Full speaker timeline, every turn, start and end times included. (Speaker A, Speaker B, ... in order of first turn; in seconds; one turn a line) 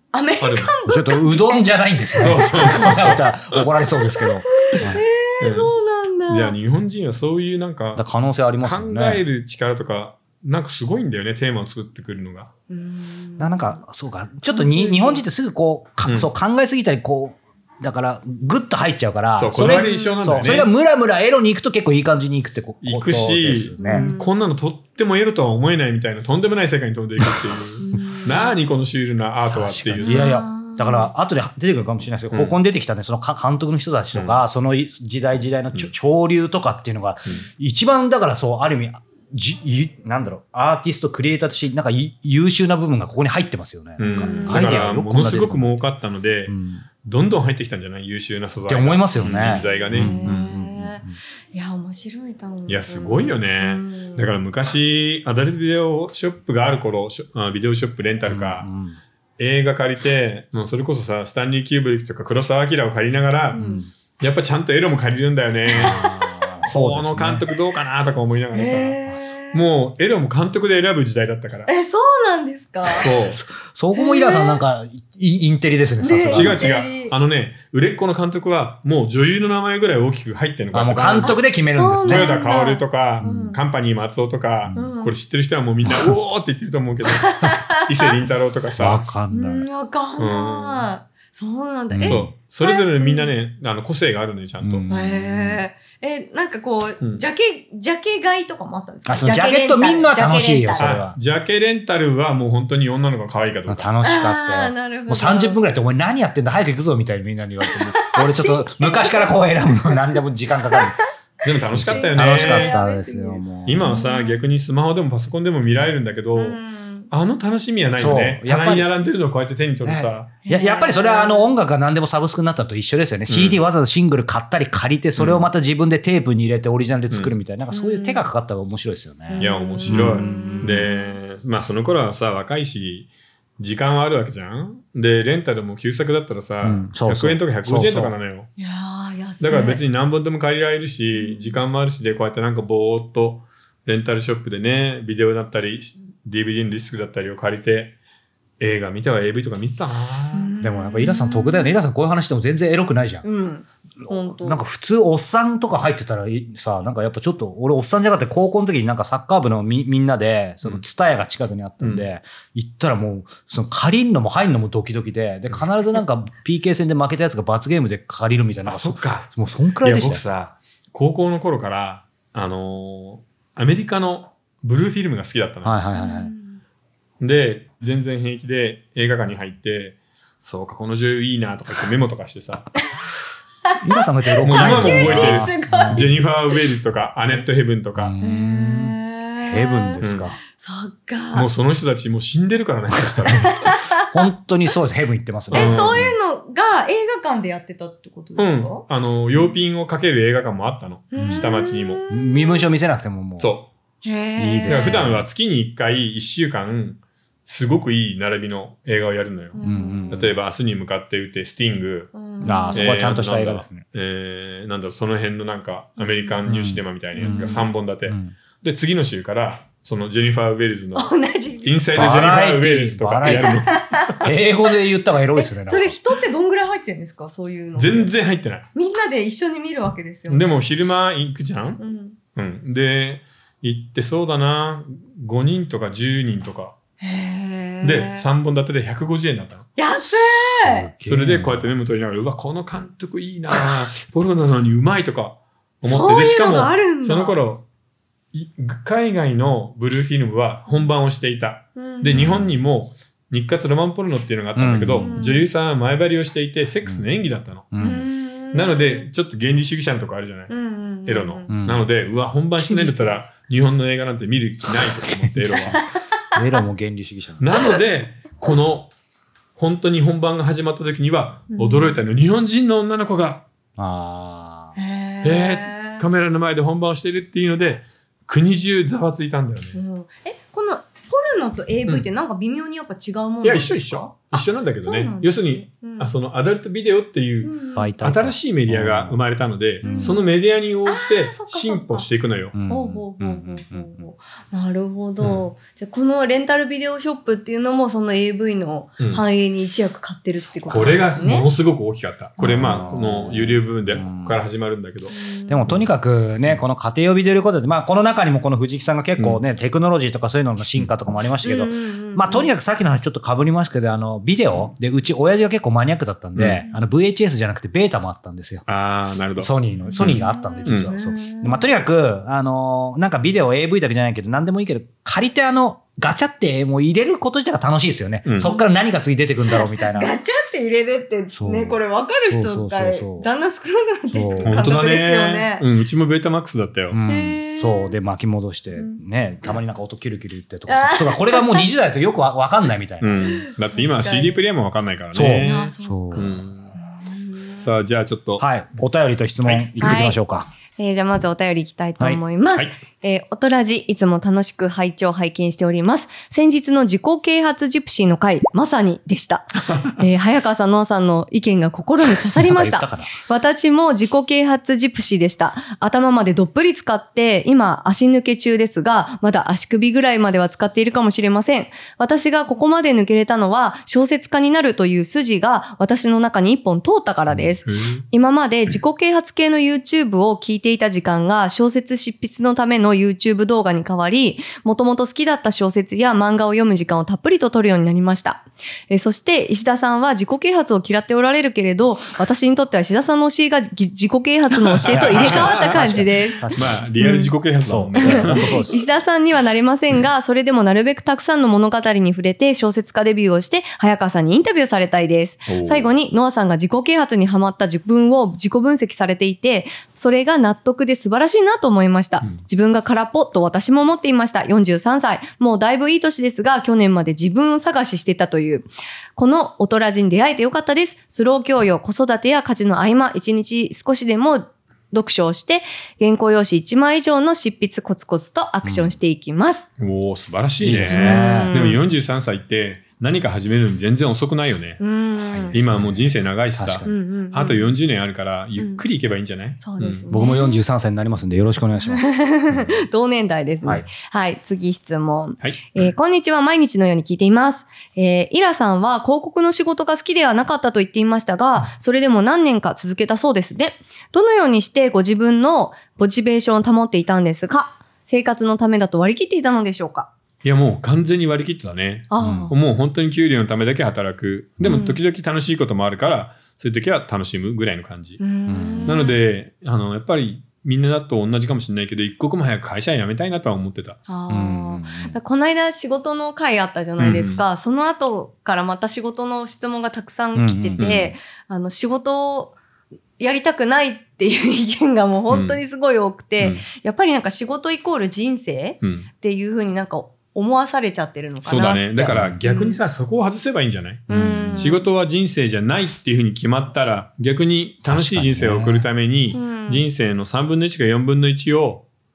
Speaker A: 0.1-1.6
Speaker B: 0.4-0.7
Speaker C: 0.9-5.0
Speaker B: 2.2-3.7
Speaker A: 2.2-3.1
Speaker A: 4.1-6.5
Speaker B: 4.8-5.7
Speaker B: 6.3-8.1
Speaker C: 8.0-9.2
Speaker B: 8.6-12.5
Speaker A: 12.7-13.8
Speaker C: 13.4-24.1
Speaker A: 14.5-15.3
Speaker B: 16.0-16.3
Speaker B: 19.4-20.7
Speaker A: 19.6-20.3
Speaker B: 22.8-30.3
Speaker A: 23.8-24.3
Speaker A: 27.8-28.6
Speaker C: 29.5-45.8
Speaker A: 30.0-31.1
Speaker B: 32.3-32.6
Speaker B: 34.1-34.4
Speaker B: 44.0-50.5
Speaker A: 44.1-44.7
Speaker C: 46.5-46.8
Speaker C: 48.7-51.2
Speaker A: 49.3-54.3
Speaker B: 52.7-58.7
Speaker C: 58.3-59.0
Speaker B: 59.4-63.6
Speaker C: 63.5-63.9
Speaker A: 63.6-63.9
Speaker B: 64.2-69.0
Speaker A: 65.7-66.1
Speaker C: 65.7-67.5
Speaker A: 68.5-69.6
Speaker C: 69.1-69.3
Speaker B: 69.5-71.7
Speaker A: 71.7-73.1
Speaker B: 72.9-73.4
Speaker C: 73.2-76.7
Speaker A: 73.9-74.6
Speaker A: 76.0-77.1
Speaker B: 76.3-81.4
Speaker C: 80.7-82.3
Speaker A: 81.2-83.6
Speaker B: 82.0-89.1
Speaker C: 83.2-83.5
Speaker C: 84.6-84.9
Speaker A: 84.7-85.1
Speaker A: 87.2-88.1
Speaker C: 88.8-89.7
Speaker A: 89.3-93.3
Speaker B: 90.2-90.9
Speaker C: 91.9-92.3
Speaker B: 92.0-94.8
Speaker C: 94.6-95.7
Speaker A: 94.9-100.9
Speaker C: 99.1-101.2
Speaker B: 100.8-104.0
Speaker C: 103.7-111.0
Speaker A: 104.0-105.6
Speaker A: 107.7-110.0
Speaker A: 110.7-111.0
Speaker B: 111.4-112.8
Speaker A: 111.6-114.4
Speaker C: 111.7-113.9
Speaker B: 113.7-116.6
Speaker A: 116.3-117.1
Speaker B: 117.1-120.3
Speaker C: 118.0-118.9
Speaker C: 119.8-130.8
Speaker A: 120.5-121.5
Speaker B: 123.3-123.6
Speaker B: 125.2-125.5
Speaker B: 127.1-127.3
Speaker A: 127.7-128.3
Speaker A: 129.3-131.2
Speaker B: 129.4-138.5
Speaker C: 136.6-138.1
Speaker A: 138.6-139.8
Speaker B: 139.4-148.0
Speaker A: 141.1-141.6
Speaker B: 148.6-150.5
Speaker A: 150.3-151.8
Speaker C: 150.6-153.3
Speaker A: 153.2-154.6
Speaker C: 154.0-170.2
Speaker B: 161.8-162.1
Speaker B: 168.7-175.8
Speaker C: 175.6-176.3
Speaker A: 175.9-176.6
Speaker B: 177.2-182.7
Speaker C: 183.8-186.2
Speaker B: 184.4-188.1
Speaker A: 184.4-186.2
Speaker C: 187.9-190.4
Speaker A: 188.2-190.0
Speaker B: 190.0-190.3
Speaker A: 190.6-191.5
Speaker B: 191.3-193.5
Speaker C: 193.2-193.5
Speaker A: 193.3-194.0
Speaker C: 194.1-196.2
Speaker B: 195.5-196.1
Speaker A: 195.5-199.5
Speaker B: 198.4-202.0
Speaker A: 201.1-202.7
Speaker C: 201.2-201.5
Speaker C: 202.1-203.5
Speaker B: 203.4-203.7
Speaker A: 204.0-205.1
Speaker C: 204.4-205.2
Speaker B: 204.7-212.1
Speaker A: 209.6-210.3
Speaker C: 209.6-210.3
Speaker A: 212.1-213.1
Speaker C: 212.4-213.9
Speaker B: 212.7-221.1
Speaker A: 216.0-216.3
Speaker C: 216.5-218.3
Speaker A: 217.2-217.7
Speaker A: 220.9-221.8
Speaker B: 221.6-224.3
Speaker C: 221.9-223.6
Speaker A: 223.2-224.7
Speaker C: 224.2-226.0
Speaker A: 225.3-228.1
Speaker B: 227.8-228.7
Speaker A: 228.8-230.5
Speaker B: 230.3-231.8
Speaker A: 231.8-232.2
Speaker B: 232.4-236.8
Speaker A: 237.0-238.3
Speaker B: 237.8-239.7
Speaker A: 239.8-240.9
Speaker C: 240.6-241.7
Speaker B: 241.1-247.7
Speaker A: 245.8-247.4
Speaker B: 248.3-258.0
Speaker A: 251.8-252.3
Speaker C: 252.1-252.6
Speaker C: 254.6-255.3
Speaker A: 255.0-255.5
Speaker C: 257.7-258.1
Speaker A: 257.8-259.1
Speaker B: 258.5-260.5
Speaker A: 260.5-261.5
Speaker B: 261.1-265.8
Speaker C: 261.5-261.8
Speaker A: 262.6-263.3
Speaker C: 265.0-265.8
Speaker C: 266.4-267.5
Speaker B: 267.4-268.9
Speaker B: 269.6-273.4
Speaker A: 271.5-272.0
Speaker C: 273.8-274.8
Speaker A: 274.8-276.1
Speaker B: 275.2-279.8
Speaker A: 279.8-286.1
Speaker B: 283.4-292.6
Speaker A: 287.4-287.9
Speaker C: 287.8-289.2
Speaker C: 289.8-290.2
Speaker A: 289.8-290.3
Speaker A: 290.9-292.1
Speaker C: 292.6-294.1
Speaker A: 292.7-301.5
Speaker B: 295.2-295.5
Speaker B: 299.0-299.2
Speaker B: 300.6-305.1
Speaker A: 302.4-302.9
Speaker C: 302.4-304.4
Speaker A: 305.1-305.8
Speaker C: 305.5-318.7
Speaker B: 309.2-309.4
Speaker A: 311.4-312.5
Speaker B: 316.4-316.6
Speaker B: 318.7-320.9
Speaker C: 319.4-330.2
Speaker A: 319.9-321.7
Speaker B: 328.3-328.5
Speaker A: 329.5-335.7
Speaker C: 331.3-333.3
Speaker C: 334.1-334.6
Speaker B: 334.3-337.0
Speaker C: 336.9-343.3
Speaker A: 337.1-338.0
Speaker A: 338.7-339.0
Speaker A: 340.7-341.7
Speaker B: 343.0-346.8
Speaker A: 343.2-344.4
Speaker C: 345.1-346.3
Speaker A: 345.4-347.7
Speaker B: 347.6-348.4
Speaker C: 348.4-350.5
Speaker B: 349.4-349.8
Speaker A: 349.8-350.2
Speaker A: 350.8-397.3
Speaker B: 359.7-360.0
Speaker C: 362.3-363.1
Speaker B: 377.4-378.0
Speaker B: 394.9-398.4
Speaker C: 395.0-396.8
Speaker C: 397.6-398.9
Speaker A: 397.9-429.7
Speaker B: 405.5-405.9
Speaker C: 428.6-429.0
Speaker B: 429.8-434.8
Speaker C: 430.6-431.6
Speaker A: 430.8-431.8
Speaker A: 434.8-435.6
Speaker C: 435.3-436.9
Speaker B: 435.5-440.1
Speaker A: 436.9-437.8
Speaker A: 438.6-438.8
Speaker A: 439.6-440.6
Speaker C: 440.1-442.6
Speaker A: 441.9-460.1
Speaker B: 445.4-445.9
Speaker B: 460.4-468.2
Speaker A: 462.1-462.6
Speaker C: 462.2-462.5
Speaker A: 464.6-465.0
Speaker A: 468.2-469.2
Speaker C: 468.5-469.0
Speaker B: 468.8-474.0
Speaker A: 474.1-482.6
Speaker C: 474.3-475.2
Speaker B: 477.0-477.4
Speaker C: 480.4-480.8
Speaker B: 480.8-481.1
Speaker A: 483.2-492.8
Speaker B: 485.3-485.6
Speaker B: 486.4-486.6
Speaker B: 488.8-489.1
Speaker B: 491.4-501.9
Speaker C: 492.1-492.4
Speaker A: 494.1-494.9
Speaker C: 494.1-494.8
Speaker C: 497.8-498.9
Speaker A: 499.3-499.9